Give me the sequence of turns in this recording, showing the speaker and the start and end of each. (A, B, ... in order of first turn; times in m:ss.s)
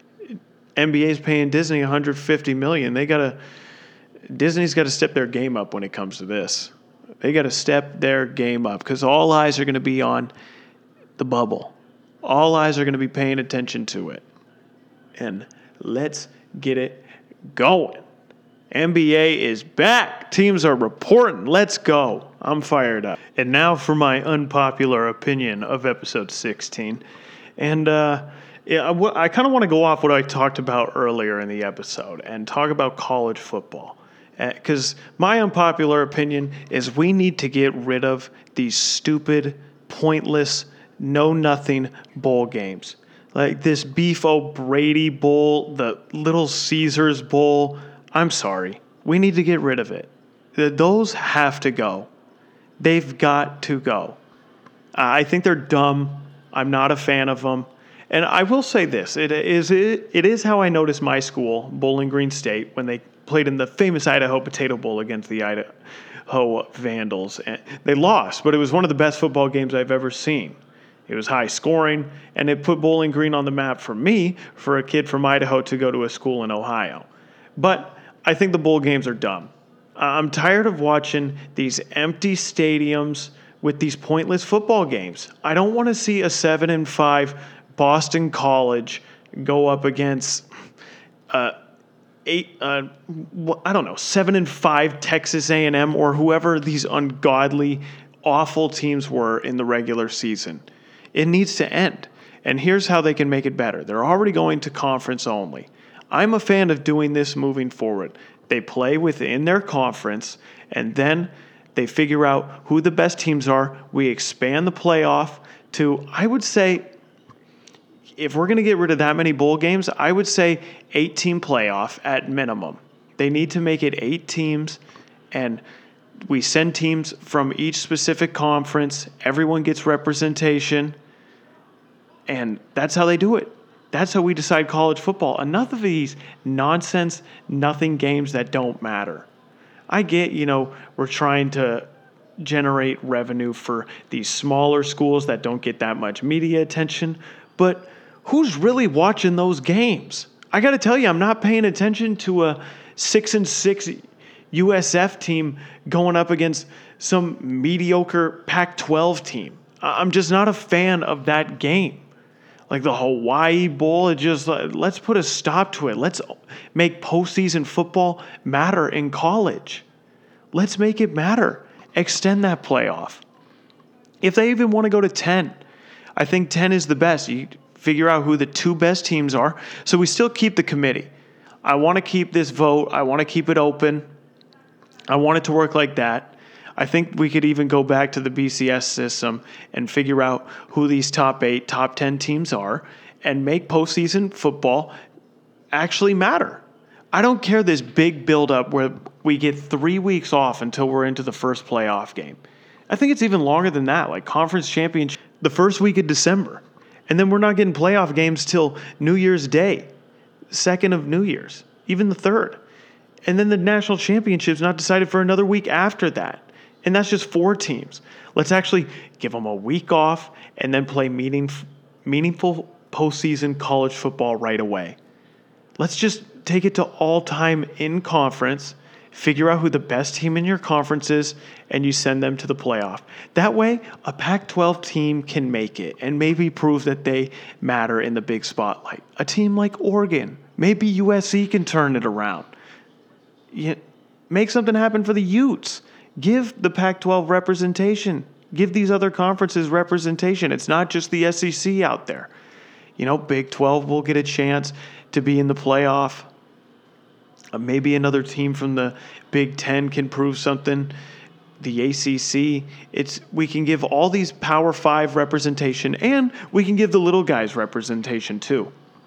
0:00.8-0:03.4 A
0:04.3-0:10.3 A
0:11.2-0:14.2 A
0:15.2-0:18.1 A
0:18.7-0:27.0 A
0:27.6-0:52.1 A
0:52.8-0:54.2 A
0:55.0-1:05.7 A
1:06.3-1:30.5 A
1:31.3-1:31.6 A
1:32.2-1:56.9 A
1:58.2-2:04.8 A
2:05.3-2:05.6 A
2:06.2-2:11.0 A
2:12.3-2:19.3 A
2:19.9-2:21.9 A
2:22.4-2:42.1 A
2:42.7-2:49.8 A
2:50.5-2:53.2 A
2:54.2-2:55.6 A
2:56.2-3:01.1 A
3:01.6-3:04.0 A
3:05.1-3:14.9 A
3:15.7-3:29.9 A
3:30.5-3:32.6 A
3:33.3-3:45.0 A
3:45.8-4:02.5 A
4:03.5-4:12.3 A
4:13.0-4:16.3 A
4:17.5-4:20.9 A
4:21.6-4:28.7 A